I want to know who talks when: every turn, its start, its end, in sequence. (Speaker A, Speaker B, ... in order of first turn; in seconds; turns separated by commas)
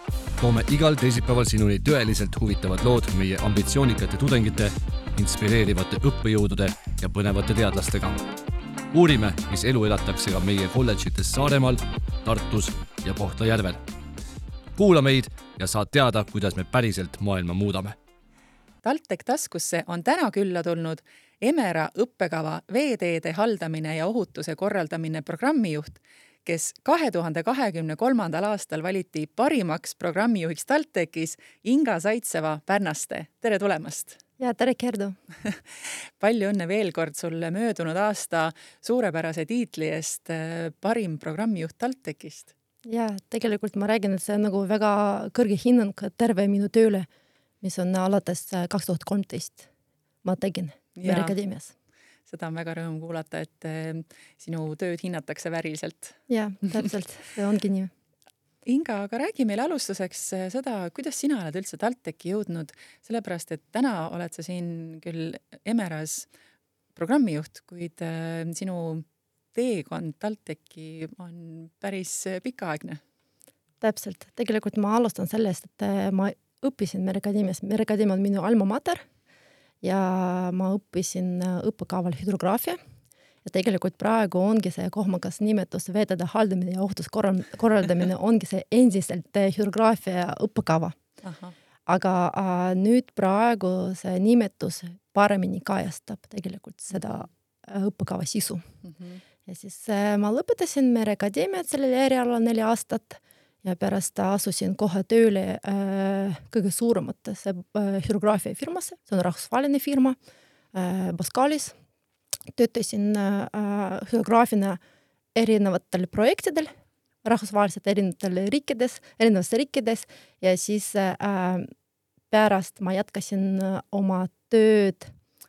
Speaker A: 0.4-8.2, Speaker A: 8.9-13.8, Speaker A: 14.8-17.9, Speaker B: 18.8-34.2, Speaker C: 34.4-35.2, Speaker B: 35.4-42.5, Speaker C: 42.9-47.1, Speaker C: 47.6-49.7, Speaker C: 50.2-51.7, Speaker B: 51.0-51.4, Speaker B: 52.3-56.2, Speaker C: 56.3-57.9, Speaker B: 58.6-66.3, Speaker B: 67.0-73.0, Speaker C: 73.8-79.0, Speaker C: 79.8-82.8, Speaker C: 83.5-91.0, Speaker B: 91.2-91.5, Speaker C: 91.9-98.6, Speaker B: 96.9-97.2, Speaker B: 98.8-99.2, Speaker C: 99.5-110.2, Speaker C: 110.7-111.8, Speaker C: 112.5-114.8, Speaker C: 115.3-116.7, Speaker C: 117.2-121.7, Speaker C: 122.3-125.1